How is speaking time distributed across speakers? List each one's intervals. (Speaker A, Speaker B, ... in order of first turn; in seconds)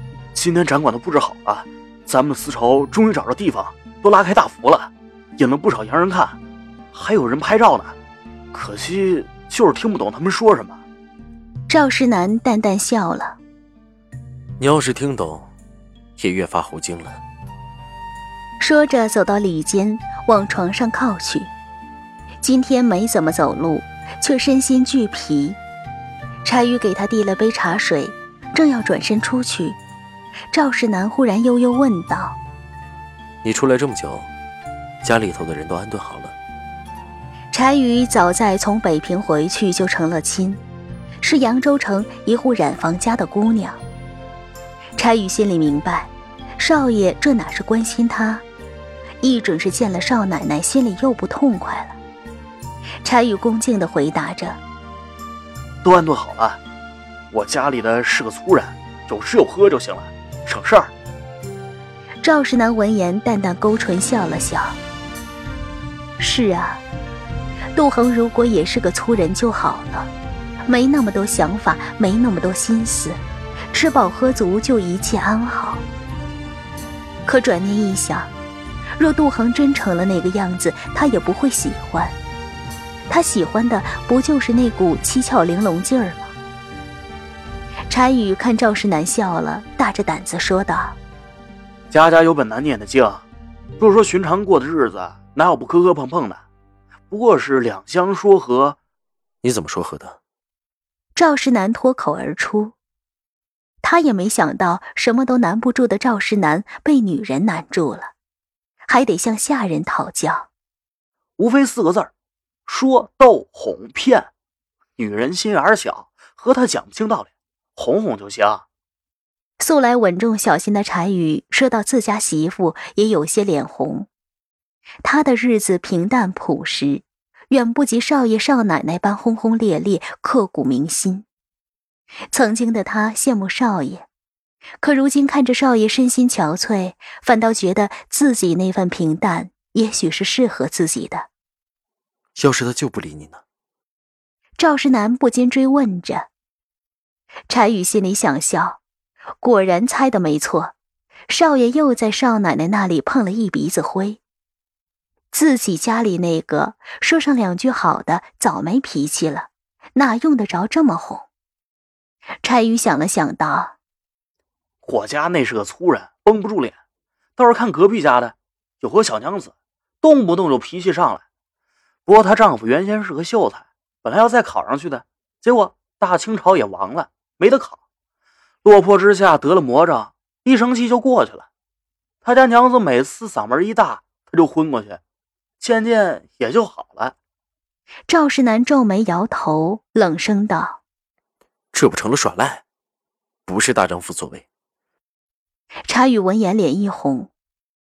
Speaker A: 0.3-6.4, 6.9-8.0, 8.5-10.8, 55.8-56.6, 57.3-60.9, 91.9-93.2, 93.8-96.4, 97.1-98.8, 111.4-112.1, 112.7-114.3, 115.0-118.7, 164.8-166.8, 167.4-171.2, 172.1-177.8, 178.6-181.5, 182.2-185.0, 185.6-187.1
Speaker B: 11.7-13.4, 18.6-21.5, 22.4-25.6, 26.4-29.8, 30.5-32.4, 37.5-40.6, 41.2-43.8, 45.0-48.4, 49.2-52.0, 53.0-54.6, 62.2-64.8, 66.2-66.8, 67.8-70.1, 70.7-73.2, 73.7-75.8, 77.3-78.3, 79.0-82.2, 83.1-86.3, 87.9-91.0, 101.2-102.7, 103.8-108.1, 108.9-110.5, 119.6-124.1, 125.0-131.3, 132.3-134.1, 134.8-141.3, 144.6-146.3, 147.5-148.8, 149.4-150.7, 151.3-154.2, 155.3-161.3, 162.4-163.8, 188.1-190.8, 195.9-197.3
Speaker C: 14.6-15.5, 16.2-17.2, 33.4-34.3, 35.0-36.3, 99.4-100.2, 142.4-143.4, 191.7-192.6, 193.5-194.4